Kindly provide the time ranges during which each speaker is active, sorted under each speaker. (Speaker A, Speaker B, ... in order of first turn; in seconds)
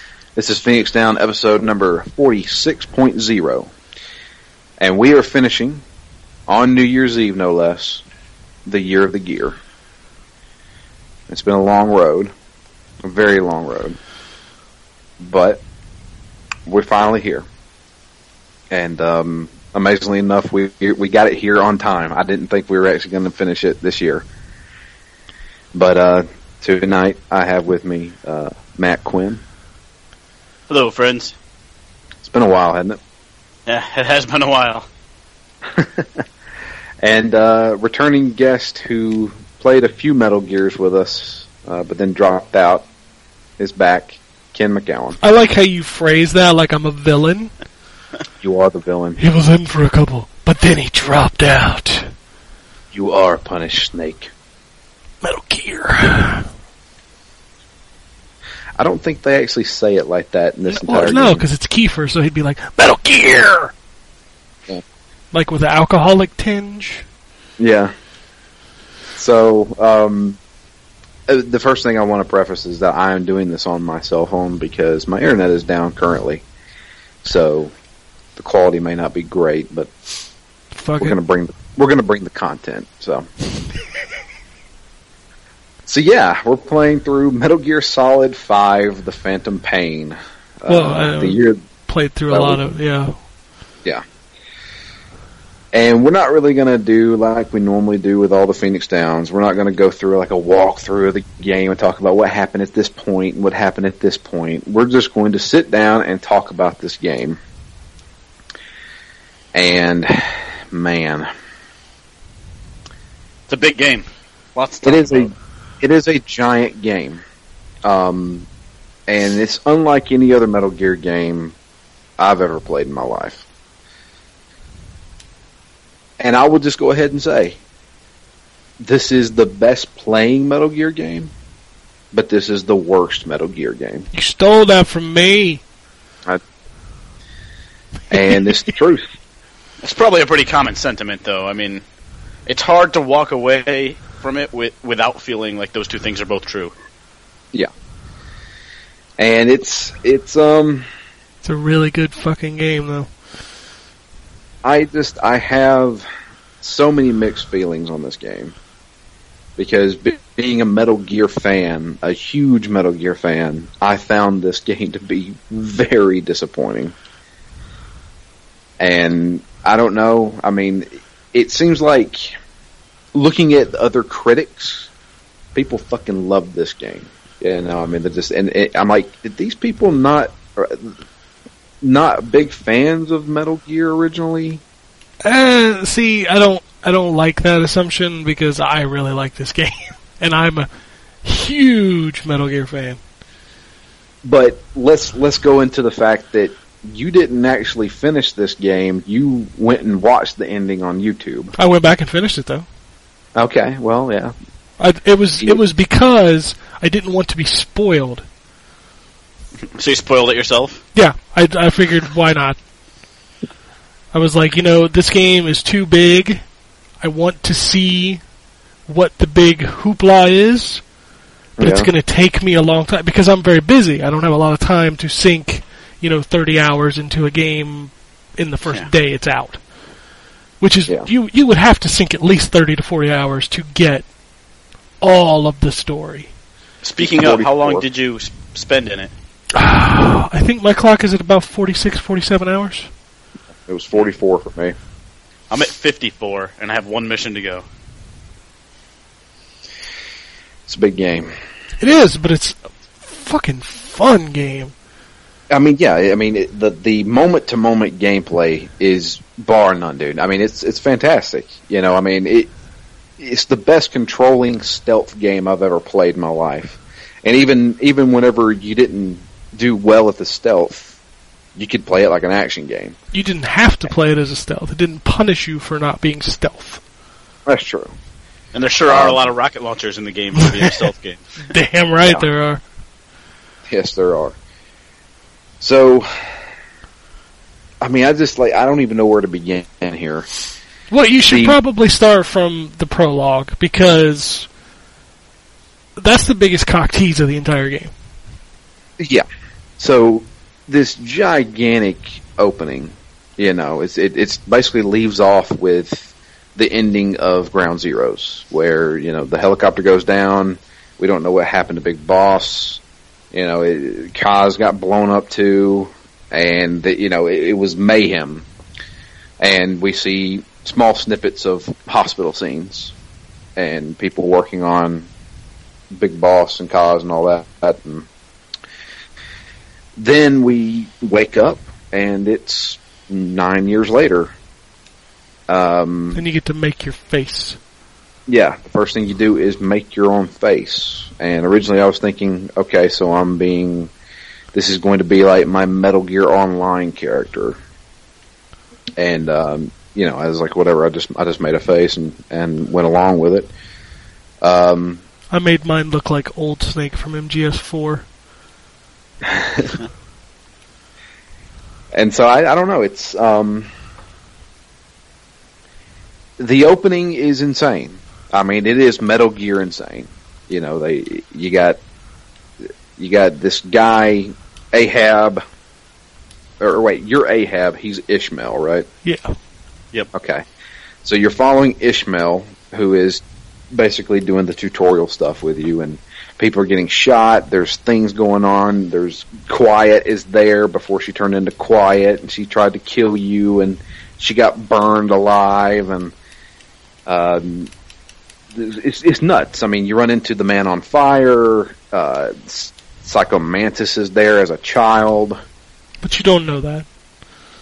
Speaker A: 0.3-3.7, 4.8-5.8, 6.5-8.0, 8.7-9.6, 11.3-12.3, 13.0-14.0, 15.2-15.6, 16.6-17.5, 18.7-24.2, 25.7-29.4, 32.2-33.0, 35.7-36.2, 37.0-42.9, 43.6-45.2, 48.4-49.2, 52.9-54.3, 58.8-61.4, 67.6-67.9, 69.2-70.4, 71.3-76.4, 77.2-77.7, 78.3-79.9, 81.0-83.3, 85.9-91.6, 92.3-92.6, 95.7-107.4, 109.5-111.3, 114.8-117.2, 117.8-118.5, 119.1-121.5, 122.2-123.4, 126.2-127.6, 128.8-131.3, 132.1-134.1, 138.1-139.0, 149.2-150.8, 154.6-156.1, 156.6-158.6, 159.6-166.9, 168.8-172.3, 173.1-174.9, 175.5-181.0, 181.8-184.6, 194.2-201.5, 203.3-204.3, 221.6-221.9, 237.0-237.8, 243.7-244.8, 250.7-251.3, 255.5-262.5, 263.2-270.9, 271.6-272.9, 277.5-277.9, 278.9-279.2, 283.7-284.4, 285.6-286.1, 287.8-290.3, 291.3-291.6, 299.0-299.2, 299.8-312.8, 313.3-318.5, 319.4-322.9, 323.6-325.1, 325.9-328.1, 329.9-334.3, 335.5-336.2, 338.3-343.9, 344.5-347.6, 349.0-353.5, 354.4-355.0, 359.2-359.7, 361.9-363.7, 366.4-371.8, 372.9-375.4, 376.6-378.9, 380.1-380.4, 381.0-396.1, 397.1-397.7, 398.5-405.4
Speaker B: 30.7-31.3, 33.7-34.9, 113.5-115.3, 139.8-141.8, 142.5-146.7, 209.7-210.8, 236.8-239.1, 245.5-247.6, 278.5-281.3
Speaker C: 45.2-47.5, 49.2-52.1, 55.2-56.5, 60.7-63.7, 65.3-67.0, 80.7-81.2, 90.7-93.2, 134.1-135.6, 151.4-153.1, 185.2-190.7, 191.2-193.0, 201.6-202.7, 204.8-208.2, 210.9-212.6, 214.1-216.4, 217.0-218.2, 218.9-220.8, 221.6-229.6, 230.6-234.1, 235.0-236.3, 239.5-242.9, 251.8-254.7, 273.1-276.8, 280.4-280.7, 281.5-282.6, 290.9-294.5, 295.9-297.9, 336.1-337.6, 355.3-358.1, 379.0-379.3, 406.0-406.9